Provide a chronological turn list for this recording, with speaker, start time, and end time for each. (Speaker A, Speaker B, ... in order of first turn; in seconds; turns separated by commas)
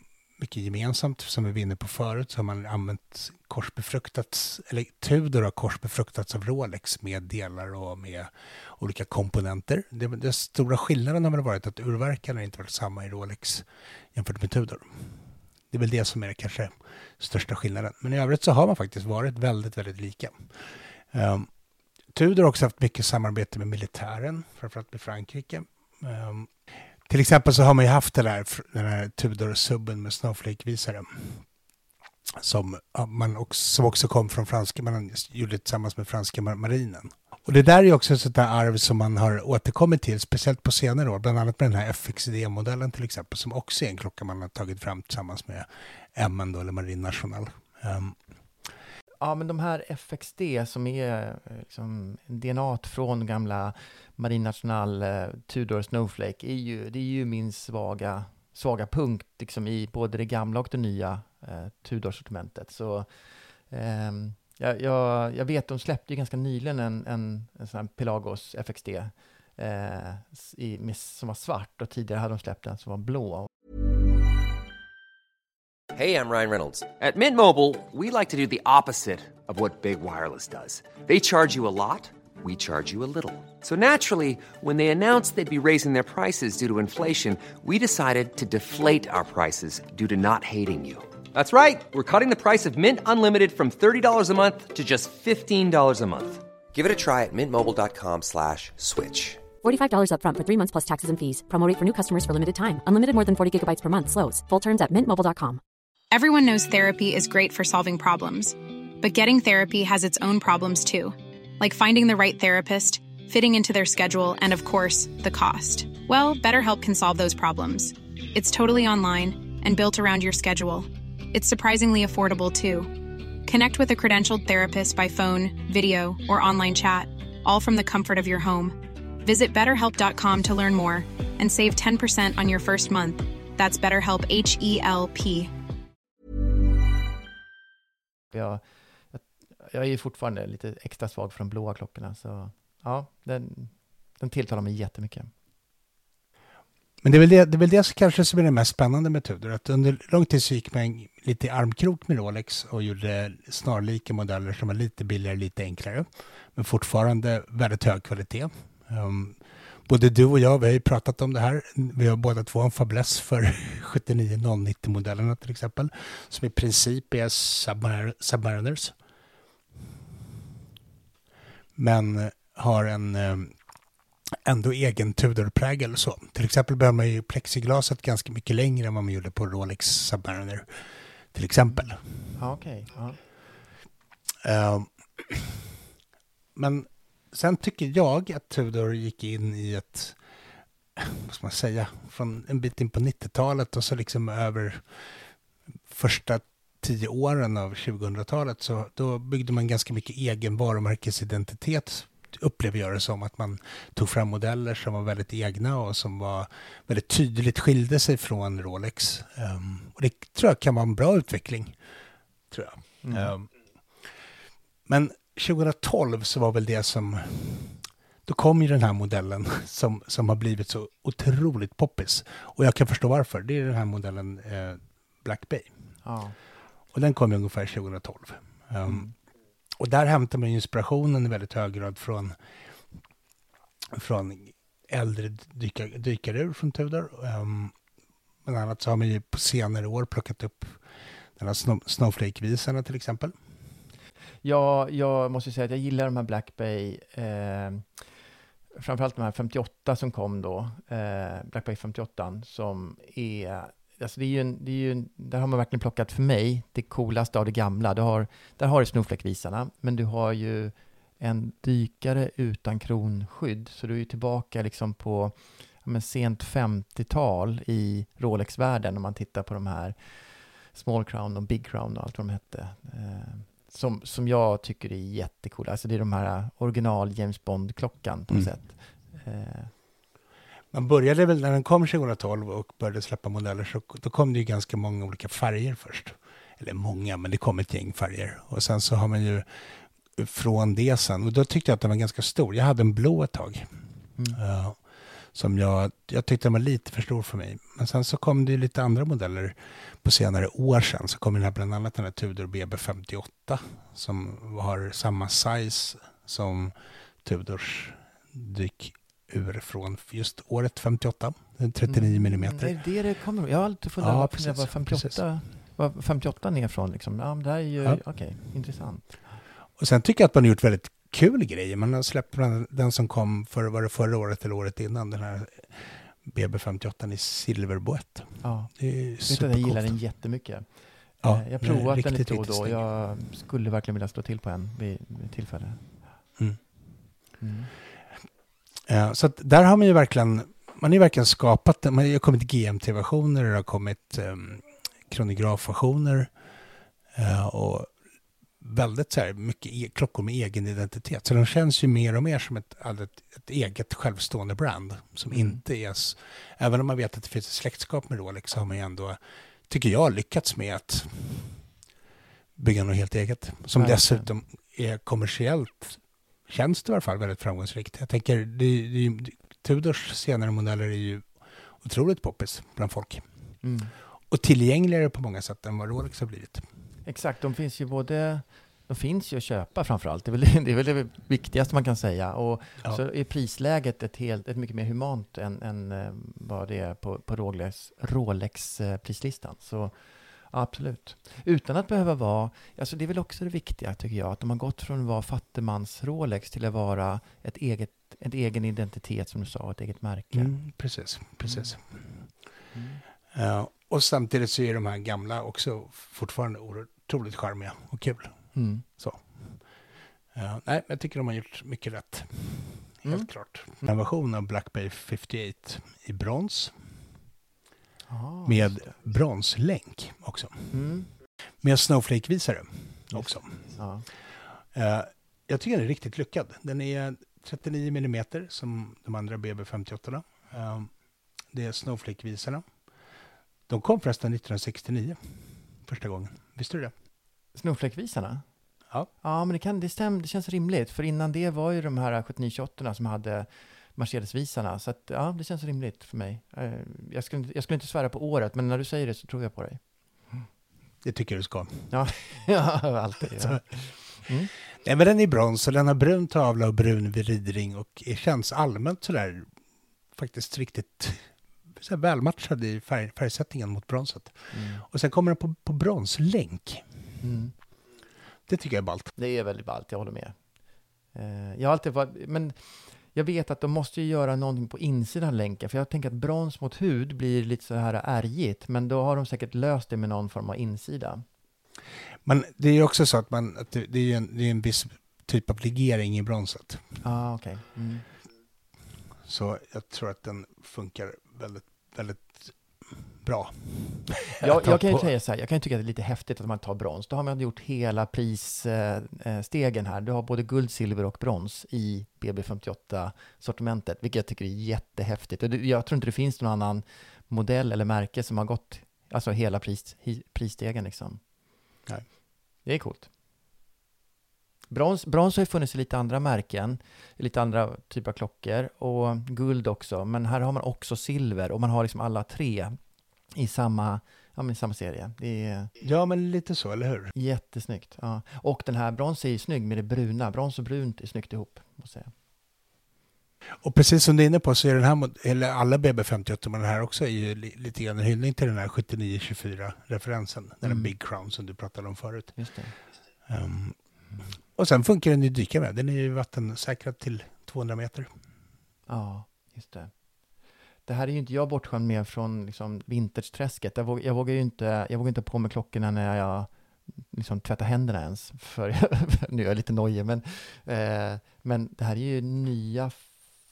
Speaker A: 0.4-21.5, Speaker A: 22.1-31.5, Speaker A: 32.4-48.7, Speaker B: 49.2-73.5, Speaker C: 75.9-99.4, Speaker D: 99.6-105.6, Speaker E: 106.1-135.5, Speaker B: 138.3-145.3, Speaker A: 147.0-168.9, Speaker A: 171.8-173.6, Speaker A: 174.4-182.3, Speaker B: 181.7-183.2, Speaker A: 184.4-185.6, Speaker A: 186.6-190.2, Speaker A: 191.0-195.1, Speaker A: 195.9-211.8, Speaker A: 212.5-214.2, Speaker B: 213.0-213.3, Speaker A: 214.9-225.7, Speaker B: 226.0-226.3, Speaker A: 226.9-229.1, Speaker B: 228.9-229.1, Speaker A: 229.8-232.4, Speaker A: 233.9-237.8, Speaker A: 238.4-240.8, Speaker A: 241.4-243.4, Speaker B: 244.4-248.0, Speaker B: 248.8-279.7, Speaker A: 280.7-293.7, Speaker A: 294.3-312.8, Speaker B: 311.9-319.3, Speaker A: 314.0-315.3, Speaker A: 319.8-330.0, Speaker B: 328.4-336.0, Speaker A: 331.2-332.8, Speaker B: 337.4-337.7, Speaker A: 338.9-346.3, Speaker A: 347.1-347.9, Speaker A: 348.6-361.6, Speaker B: 355.3-355.6, Speaker A: 362.6-373.6, Speaker B: 363.8-364.3, Speaker B: 373.6-373.9, Speaker A: 374.3-376.7, Speaker B: 377.1-400.6, Speaker A: 400.3-402.3, Speaker B: 401.4-401.8, Speaker B: 402.7-403.0, Speaker A: 403.3-409.8, Speaker B: 408.6-408.9, Speaker A: 410.3-416.9, Speaker B: 413.0-413.3, Speaker B: 418.1-418.9, Speaker A: 418.5-420.8, Speaker B: 420.7-421.1, Speaker A: 421.6-423.8, Speaker B: 423.1-424.1, Speaker A: 424.7-432.6, Speaker A: 433.7-436.9, Speaker B: 437.5-438.5, Speaker B: 439.2-450.5, Speaker A: 451.0-452.2, Speaker B: 451.9-454.5, Speaker A: 453.2-453.8, Speaker A: 454.8-459.5, Speaker A: 460.1-467.0, Speaker B: 464.5-464.8, Speaker B: 467.2-467.5, Speaker A: 468.5-469.1, Speaker B: 469.2-470.4, Speaker B: 471.1-481.2, Speaker A: 482.2-486.9, Speaker B: 487.0-488.1, Speaker A: 489.2-495.1, Speaker B: 494.4-511.2, Speaker B: 512.6-513.1, Speaker B: 514.7-522.8, Speaker B: 523.3-525.7, Speaker A: 525.8-527.1, Speaker B: 527.1-532.1, Speaker A: 533.6-542.5, Speaker B: 540.6-540.9, Speaker B: 542.4-542.8, Speaker A: 543.3-543.8, Speaker A: 544.5-548.1, Speaker B: 548.9-549.9, Speaker B: 550.9-563.1